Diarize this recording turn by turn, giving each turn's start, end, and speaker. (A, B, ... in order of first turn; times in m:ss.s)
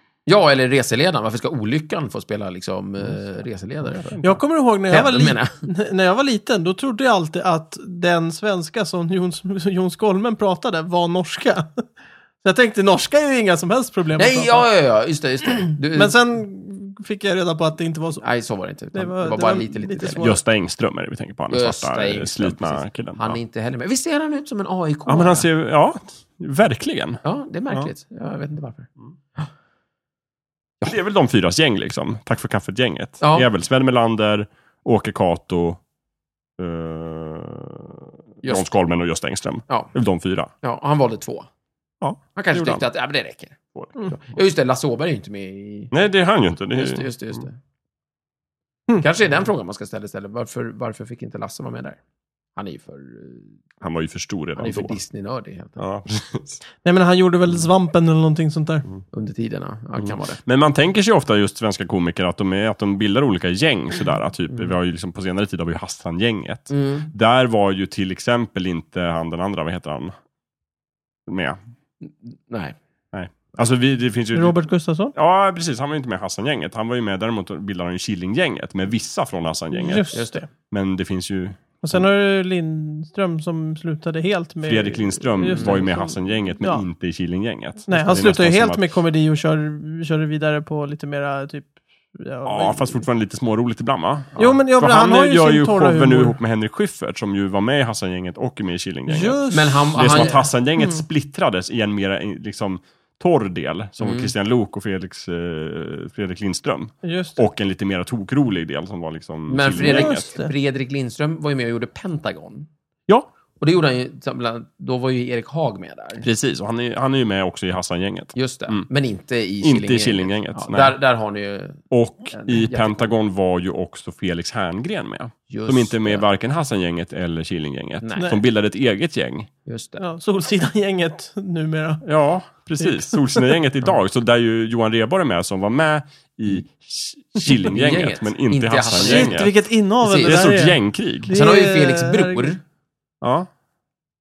0:00.3-0:04.2 A
0:03.9-0:04.4 B
0:04.2-0:11.8 C
0:04.9-0:05.5 A
0:12.4-0:14.7 C
0:14.2-0:16.2 A
0:15.9-0:18.3 C
0:18.2-0:20.2 A
0:18.9-0:20.4 C
0:20.2-0:23.4 B
0:21.5-0:25.5 A
0:25.1-0:27.2 B
0:27.2-0:29.5 A
0:30.8-0:35.8 B
0:33.2-0:33.5 A
0:36.6-0:40.5 B
0:40.6-0:41.5 A
0:42.0-0:42.8 B
0:42.4-0:43.6 A
0:44.1-0:45.9 A
0:45.9-0:47.1 B
0:46.7-0:47.6 A
0:49.0-0:52.0 A
0:52.6-0:53.5 A
0:53.8-0:55.0 B
0:54.6-0:55.8 A
0:55.8-0:56.6 B
0:56.8-0:58.8 C
0:59.1-1:00.4 A
1:00.4-1:10.1 B
1:06.7-1:07.1 A
1:11.3-1:11.6 B
1:12.0-1:12.8 A
1:13.1-1:14.6 B
1:14.3-1:15.1 C
1:15.1-1:22.0 B
1:19.7-1:20.5 C
1:20.1-1:20.4 A
1:21.8-1:26.8 C
1:24.6-1:28.8 B
1:25.6-1:25.8 A
1:27.9-1:33.0 C
1:32.4-1:50.3 B
1:34.4-1:36.4 C
1:39.1-1:41.0 C
1:39.5-1:40.4 A
1:44.0-1:44.3 A
1:47.0-1:47.4 C
1:49.5-1:52.7 A
1:49.8-1:50.5 C
1:53.6-1:56.2 A
1:56.2-1:58.9 B
1:58.4-2:03.1 A
1:59.6-2:01.0 B
2:01.9-2:09.5 B
2:05.5-2:06.3 A
2:08.0-2:08.4 A
2:09.7-2:10.0 A
2:10.0-2:12.0 C
2:12.0-2:19.6 B
2:12.8-2:13.6 C
2:17.5-2:19.4 A
2:19.0-2:22.5 C
2:20.0-2:20.5 A
2:20.2-2:21.3 B
2:21.3-2:22.6 A
2:23.2-2:23.5 B